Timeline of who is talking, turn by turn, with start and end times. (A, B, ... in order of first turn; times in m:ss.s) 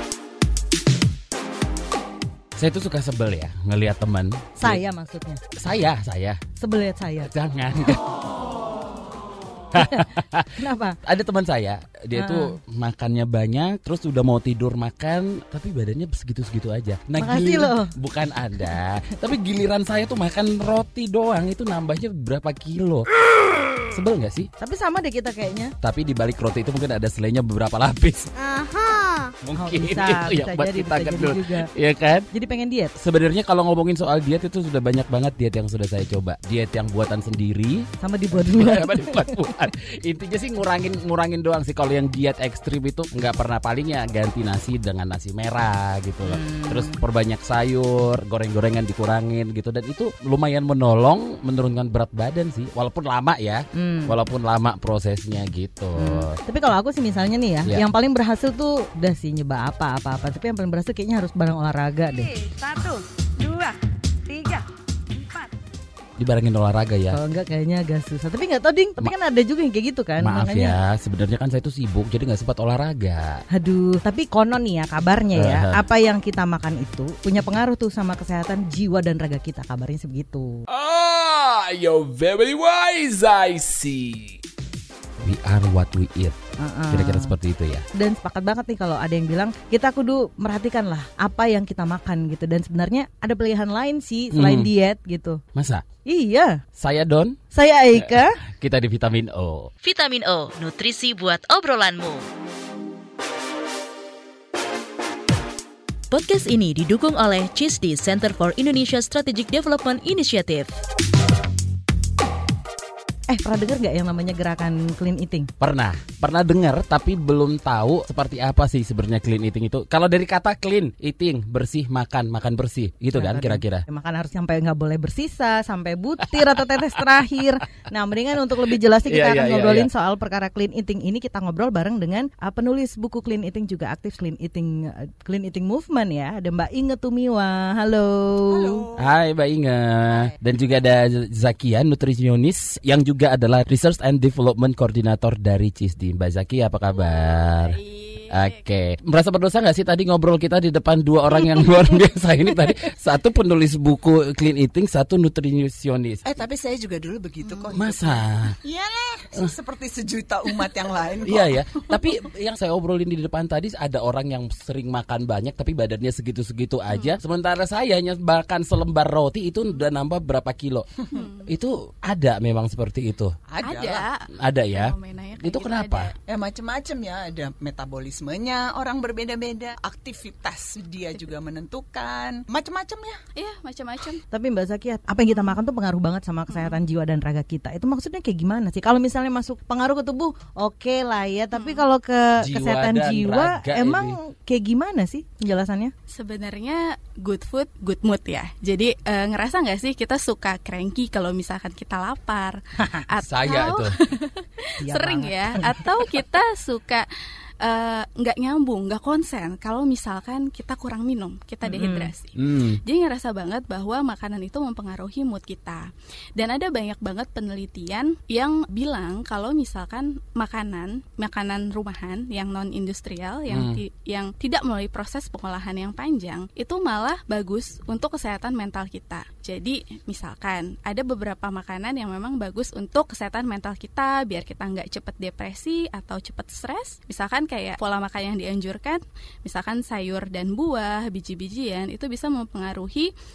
0:02.6-0:04.8 A
0:04.6-0:05.4 B
0:05.6-0:06.4 A
0:06.6-0:07.3 B
0:07.2-0:08.0 A
0:09.7-0:10.5 A
0:09.8-0:10.1 B
0:10.6-0:11.0 B
0:11.0-0:23.0 A
0:12.2-0:12.5 B
0:17.2-0:17.9 B
0:23.8-0:24.5 A
0:24.6-0:25.7 B
0:25.8-0:28.3 A
0:28.4-0:31.7 B
0:29.4-0:32.2 A
0:32.3-0:32.9 B
0:33.0-0:37.8 A
0:38.0-0:39.3 B
0:38.4-0:56.4 A
0:46.2-0:47.0 B
0:53.7-0:54.1 B
0:56.0-1:03.7 B
1:04.3-1:04.6 B
1:06.2-1:07.2 A
1:07.1-1:10.8 B
1:10.2-1:13.4 A
1:13.5-1:20.6 B
1:15.4-1:15.8 A
1:20.7-1:24.4 A
1:25.2-1:26.4 A
1:26.6-1:27.3 B
1:26.9-1:27.8 A
1:28.0-1:35.4 B
1:34.3-1:34.7 A
1:35.6-1:35.8 A
1:36.1-1:36.6 B
1:36.8-1:37.4 A
1:37.5-1:38.4 B
1:37.9-1:39.7 A
1:39.8-1:42.2 C
1:46.1-1:50.7 C
1:53.3-1:55.5 B
1:55.6-2:03.8 A
2:03.1-2:18.8 B
2:09.0-2:09.9 A
2:18.5-2:19.1 D
2:19.0-2:27.8 A
2:26.9-2:28.6 E
2:28.3-2:36.4 A
2:36.2-2:41.6 D
2:37.7-2:38.6 A
2:41.2-2:50.9 A
2:46.9-2:47.2 E
2:51.1-2:51.5 E
2:51.5-2:53.3 A
2:53.5-2:54.1 D
2:53.6-2:56.1 E
2:54.4-2:56.1 A
2:56.3-3:03.2 D
3:03.4-3:04.2 E
3:04.3-3:15.9 B
3:06.5-3:06.8 E
3:11.5-3:11.8 E
3:12.4-3:14.2 A
3:16.1-3:27.0 E
3:23.2-3:23.9 A
3:24.8-3:25.8 B
3:27.6-4:03.1 E
3:31.7-3:32.1 B
3:32.4-3:32.8 A
3:43.5-3:43.8 A